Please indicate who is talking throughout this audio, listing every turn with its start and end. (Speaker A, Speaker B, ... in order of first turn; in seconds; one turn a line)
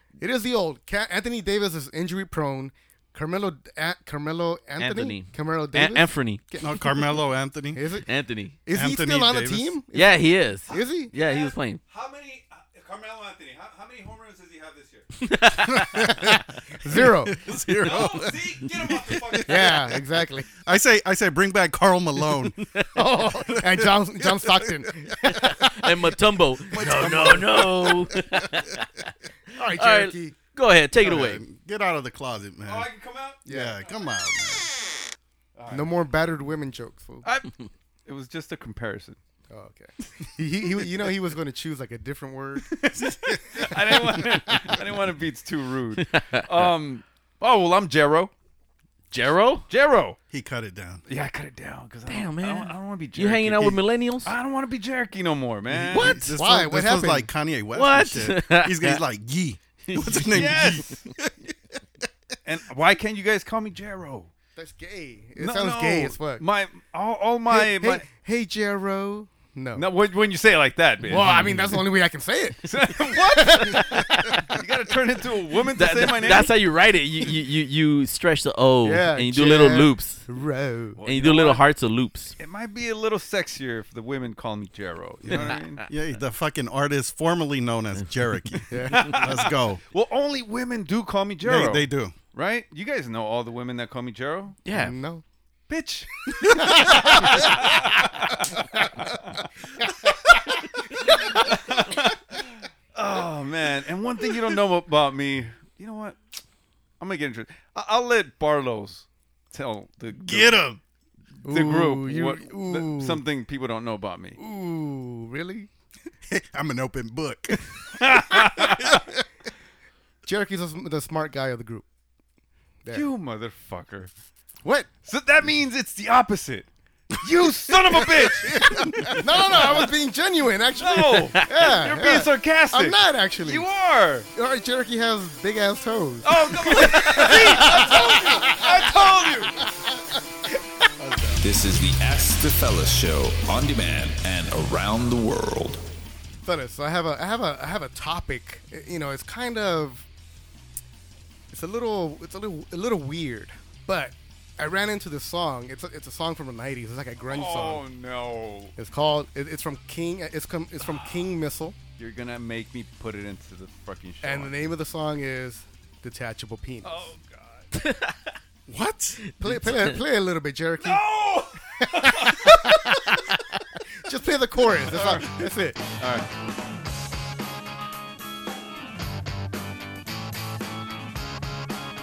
Speaker A: 0.2-7.0
Speaker B: 4.8-6.4
Speaker C: 6.6-7.8
Speaker A: 7.7-8.1
Speaker B: 8.0-8.6
Speaker A: 8.7-11.1
Speaker C: 8.7-9.8
Speaker B: 9.9-11.8
Speaker D: 10.7-15.1
Speaker B: 15.2-16.3
Speaker C: 15.7-20.0
Speaker A: 16.1-17.5
Speaker D: 17.8-19.9
Speaker A: 19.4-20.5
Speaker C: 20.6-22.6
Speaker A: 22.9-25.7
Speaker C: 23.6-25.6
Speaker B: 25.2-29.0
Speaker C: 26.7-28.2
Speaker A: 29.5-30.4
Speaker B: 29.8-31.4
Speaker C: 31.0-32.9
Speaker D: 32.6-33.4
Speaker A: 33.5-33.8
Speaker C: 33.5-34.8
Speaker D: 35.6-35.9
Speaker A: 35.7-37.2
Speaker D: 37.2-37.5
Speaker D: 38.1-39.2
Speaker A: 39.5-42.9
Speaker C: 42.8-43.7
Speaker A: 43.5-44.8
Speaker D: 43.6-48.3
Speaker B: 46.0-46.5
Speaker B: 49.1-49.6
Speaker D: 49.7-50.2
Speaker C: 50.3-51.0
Speaker D: 51.1-56.2
Speaker B: 52.1-54.3
Speaker C: 55.7-61.3
Speaker A: 55.9-57.3
Speaker B: 57.7-59.0
Speaker B: 59.9-60.8
Speaker D: 60.3-61.0
Speaker D: 62.5-64.3
Speaker A: 64.6-66.5
Speaker D: 65.4-68.1
Speaker A: 67.5-69.9
Speaker D: 69.8-71.8
Speaker A: 71.0-74.4
Speaker D: 72.6-76.5
Speaker B: 75.8-80.2
Speaker A: 78.8-81.0
Speaker D: 81.0-81.6
Speaker B: 81.0-82.3
Speaker D: 82.4-85.8
Speaker C: 85.3-89.8
Speaker B: 85.3-85.9
Speaker A: 88.7-89.2
Speaker D: 88.9-94.6
Speaker C: 91.4-92.1
Speaker B: 94.6-95.0
Speaker A: 94.7-95.2
Speaker D: 95.7-99.3
Speaker C: 96.5-96.8
Speaker A: 96.5-97.5
Speaker D: 101.1-106.2
Speaker D: 107.0-110.6
Speaker C: 110.2-110.8
Speaker A: 111.5-113.2
Speaker D: 111.5-114.4
Speaker A: 114.4-115.7
Speaker C: 116.3-118.8
Speaker D: 118.0-119.0
Speaker A: 120.2-121.8
Speaker D: 122.9-124.1
Speaker A: 124.6-124.9
Speaker D: 125.0-128.8
Speaker C: 128.4-129.2
Speaker A: 128.5-133.7
Speaker D: 129.6-129.8
Speaker D: 130.8-134.3
Speaker A: 134.3-140.2
Speaker D: 136.2-139.6
Speaker C: 141.0-141.4
Speaker E: 141.4-145.8
Speaker A: 146.4-150.1
Speaker A: 151.5-157.8
Speaker D: 157.2-158.7
Speaker A: 158.8-161.8
Speaker D: 160.8-161.3
Speaker D: 162.0-164.7
Speaker A: 164.2-167.1
Speaker D: 166.8-167.7
Speaker B: 167.7-168.2
Speaker C: 168.7-169.2
Speaker B: 169.2-170.0
Speaker A: 169.4-171.0
Speaker D: 170.8-172.7
Speaker A: 171.8-173.4
Speaker A: 174.1-175.8
Speaker D: 174.7-176.3